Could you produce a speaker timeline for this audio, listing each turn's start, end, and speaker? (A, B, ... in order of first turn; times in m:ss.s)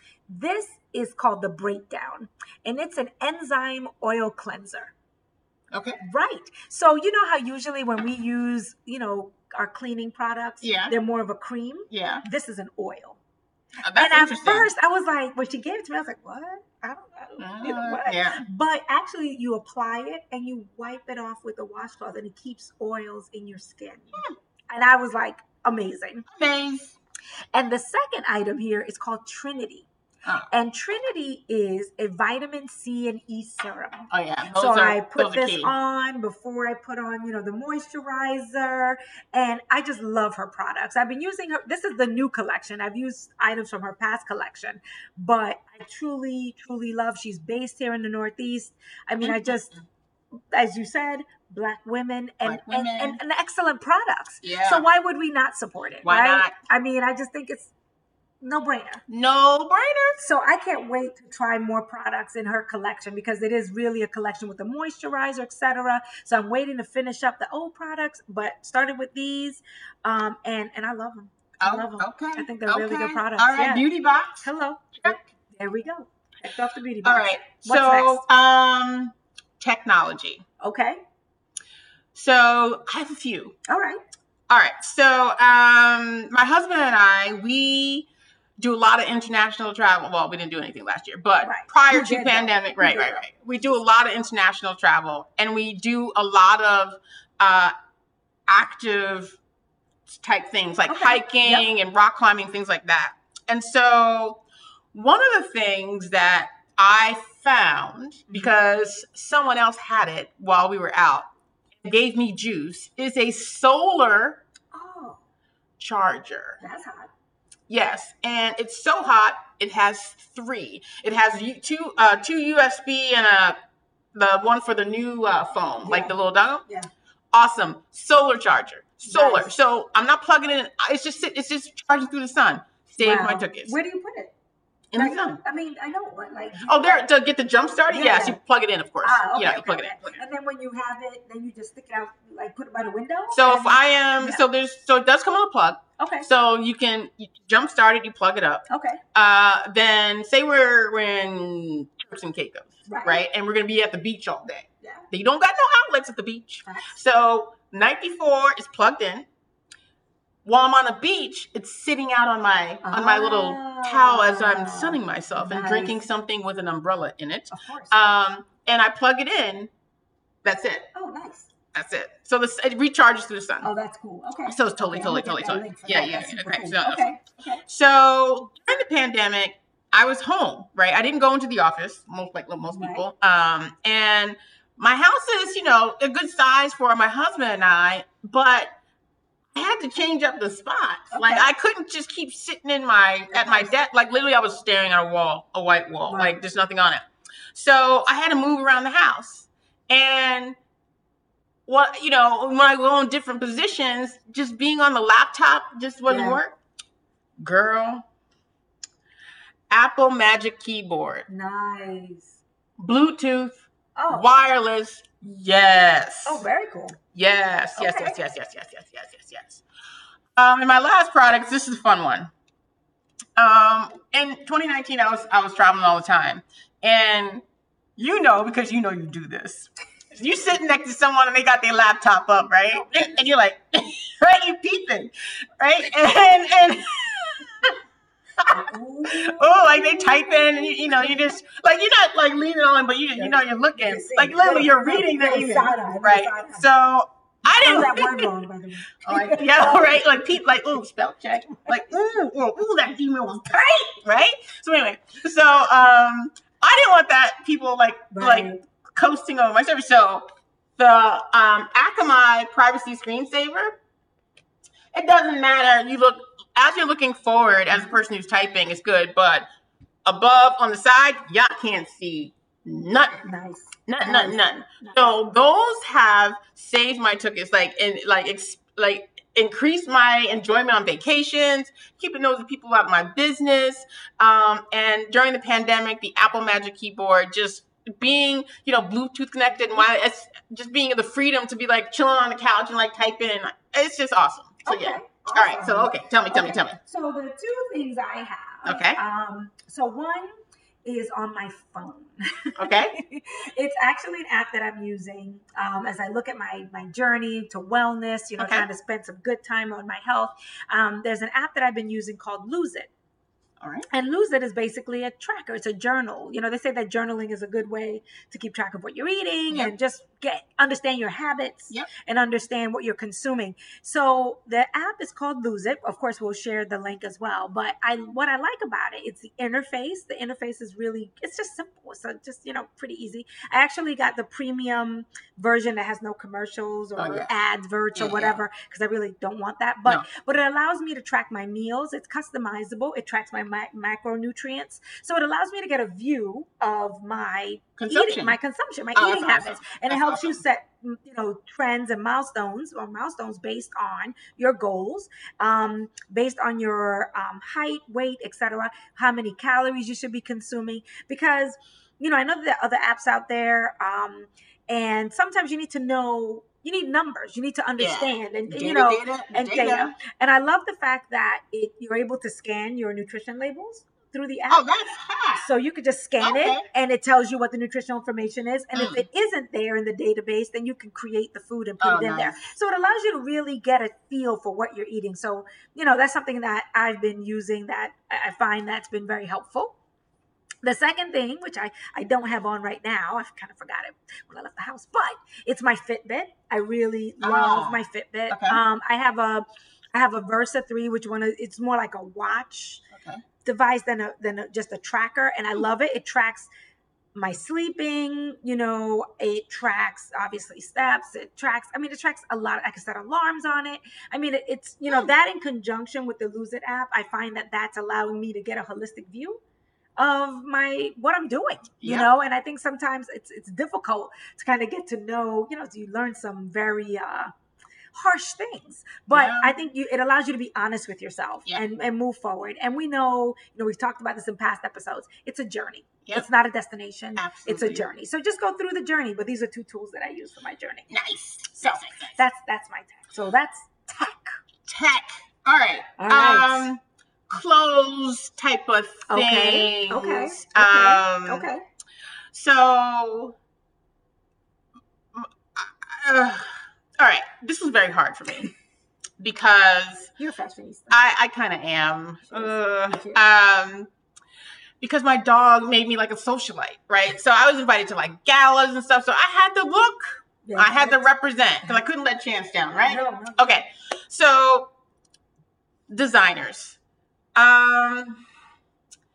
0:00.3-0:04.9 A
0:05.7-0:06.0 B
0:06.0-0:13.2 A
0:10.6-0:10.9 B
0:11.9-0:12.2 B
0:13.8-0:14.7 B
0:13.9-0:26.2 A
0:17.4-0:18.4 B
0:26.3-0:27.0 B
0:27.5-0:29.9 A
0:30.5-0:49.7 A
0:34.1-0:35.7 B
0:49.2-0:49.8 B
0:50.5-0:57.7 A
0:52.4-0:53.2 B
0:54.4-0:54.8 B
0:56.0-0:56.5 B
0:58.4-0:59.0 A
0:59.1-1:00.2 B
1:00.2-1:13.8 A
1:11.6-1:14.4 B
1:14.4-1:18.2 A
1:17.0-1:20.4 B
1:20.6-1:21.0 A
1:22.1-1:23.6 B
1:23.7-1:24.0 A
1:24.5-1:28.1 B
1:28.6-1:37.7 B
1:31.4-1:33.2 A
1:38.5-1:39.4 B
1:40.1-1:51.3 B
1:40.9-1:41.7 A
1:48.3-1:48.5 A
1:51.8-1:54.4 B
1:54.7-1:55.2 A
1:55.8-1:56.6 B
1:56.6-1:57.1 A
1:57.7-2:03.6 B
2:04.1-2:06.6 B
2:05.8-2:06.1 A
2:07.3-2:13.7 B
2:09.0-2:09.5 A
2:13.0-2:14.3 A
2:14.9-2:15.4 B
2:14.9-2:17.1 A
2:16.6-2:20.2 B
2:17.9-2:18.4 A
2:19.0-2:24.4 A
2:23.3-2:39.3 B
2:26.0-2:26.3 A
2:28.7-2:29.0 A
2:32.8-2:33.2 A
2:36.6-2:37.0 A
2:40.4-2:49.7 B
2:42.8-2:46.0 A
2:47.5-2:48.0 A
2:50.4-2:50.8 B
2:50.9-2:51.5 A
2:51.7-2:53.7 B
2:53.6-2:57.6 A
2:54.4-2:57.1 B
2:57.6-3:08.7 B
3:02.7-3:03.0 A
3:09.5-3:20.6 B
3:11.1-3:11.5 A
3:13.3-3:13.7 A
3:16.1-3:16.4 A
3:21.7-3:26.6 B
3:26.1-3:26.4 A
3:27.4-3:28.0 B
3:29.7-3:31.3 B
3:31.3-3:32.4 A
3:32.8-3:36.4 B
3:34.0-3:34.3 A
3:36.2-3:37.0 A
3:37.1-3:39.6 B
3:37.8-3:38.2 A
3:40.4-3:42.3 B
3:43.4-3:47.4 B
3:48.0-3:57.7 B
3:52.8-3:53.2 A
3:58.4-4:08.3 B
3:58.4-4:01.3 A
4:03.2-4:06.6 A
4:07.4-4:10.1 A
4:09.0-4:20.2 B
4:13.5-4:14.0 A
4:18.1-4:18.6 A
4:20.8-4:23.7 B
4:24.9-4:29.4 B
4:30.0-4:33.2 B
4:33.2-4:35.2 A
4:33.9-4:56.8 B
4:54.6-5:00.3 A
4:58.6-4:59.0 B
5:00.8-5:12.9 A
5:02.6-5:03.0 B
5:08.4-5:08.7 B
5:13.6-5:13.9 B
5:13.9-6:14.7 A
5:37.0-5:37.3 B
5:37.9-5:38.4 B
5:47.8-5:48.4 B
5:48.9-5:50.4 B
6:07.8-6:09.9 B
6:14.5-6:15.4 B
6:15.4-6:29.8 A
6:16.2-6:16.6 B
6:18.7-6:19.0 B
6:21.8-6:22.4 B
6:30.6-6:42.8 A
6:37.2-6:38.6 B
6:42.9-6:43.2 B
6:43.4-6:46.5 A
6:47.1-6:59.4 A
7:00.0-7:07.3 A
7:01.8-7:02.1 B
7:07.9-7:20.9 A
7:09.1-7:09.5 B
7:17.2-7:17.8 B
7:20.9-7:22.2 B
7:21.6-7:24.3 A
7:24.6-7:31.5 B
7:26.0-7:26.7 A
7:29.1-7:31.6 A
7:32.3-7:33.4 B
7:35.1-7:38.5 B
7:39.2-7:40.1 B
7:40.2-7:41.0 A
7:40.9-7:43.9 B
7:42.2-7:43.2 A
7:44.8-7:54.7 B
7:50.4-7:51.0 A
7:52.7-7:53.6 A
7:55.9-7:56.8 B
7:57.4-7:58.2 B